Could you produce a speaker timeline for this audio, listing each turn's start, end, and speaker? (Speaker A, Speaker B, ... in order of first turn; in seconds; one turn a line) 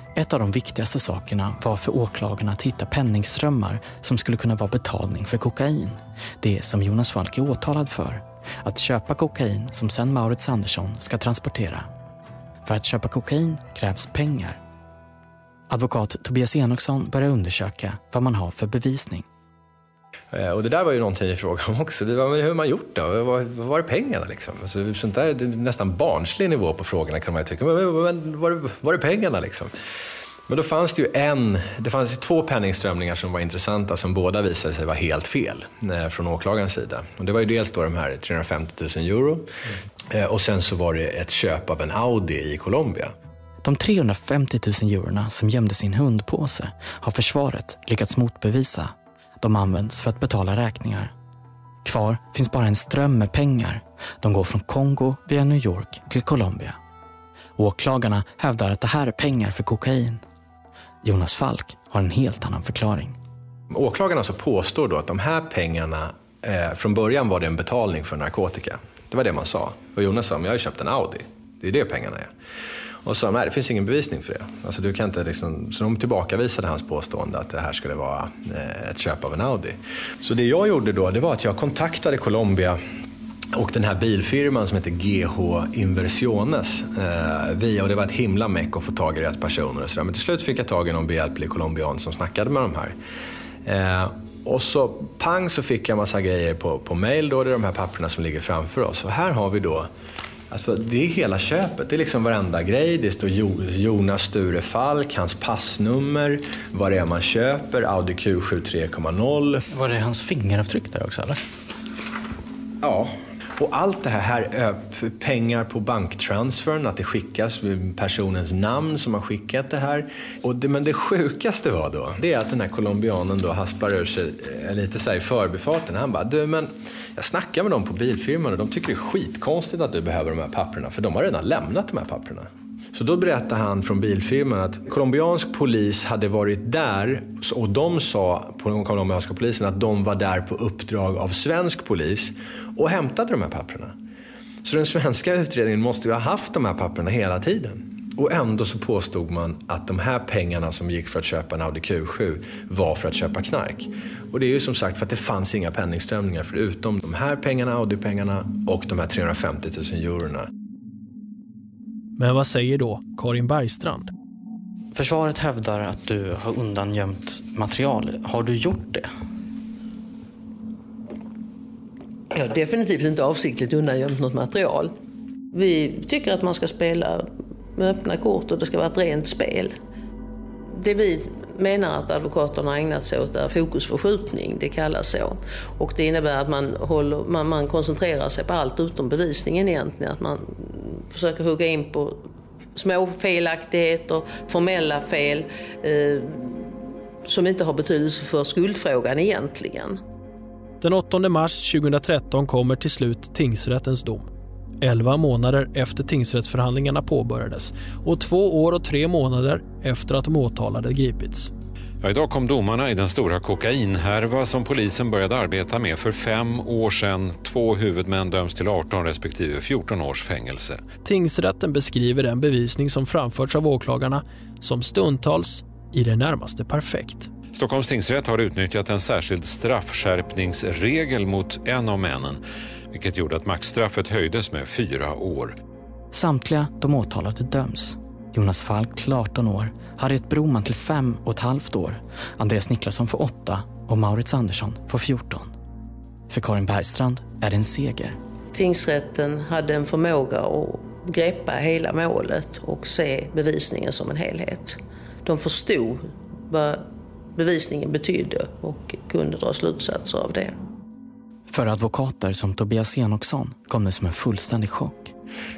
Speaker A: 0.1-11.9
Speaker A: 12.6-14.6
Speaker A: 15.7-19.3
Speaker B: 20.3-29.7
Speaker B: 30.5-39.5
Speaker B: 40.1-43.1
Speaker A: 43.6-51.1
Speaker A: 51.8-56.8
Speaker A: 57.6-60.2
Speaker A: 61.0-63.2
Speaker B: 63.7-72.3
Speaker B: 73.0-82.8
Speaker B: 83.6-93.0
Speaker B: 93.7-99.9
Speaker B: 100.5-109.7
Speaker A: 109.7-111.4
Speaker B: 112.8-143.9
Speaker B: 144.6-160.5
Speaker C: 162.2-164.1
Speaker A: 164.9-169.1
Speaker D: 172.3-174.9
Speaker D: 175.5-179.7
Speaker D: 180.8-192.2
Speaker D: 192.8-196.6
Speaker D: 197.3-200.0
Speaker C: 200.8-204.3
Speaker C: 204.8-211.5
Speaker E: 212.0-220.8
Speaker C: 221.1-227.3
Speaker E: 227.5-235.6
Speaker A: 236.1-245.5
Speaker A: 246.3-248.2
Speaker D: 248.5-256.9
Speaker D: 257.4-260.5
Speaker A: 261.5-265.1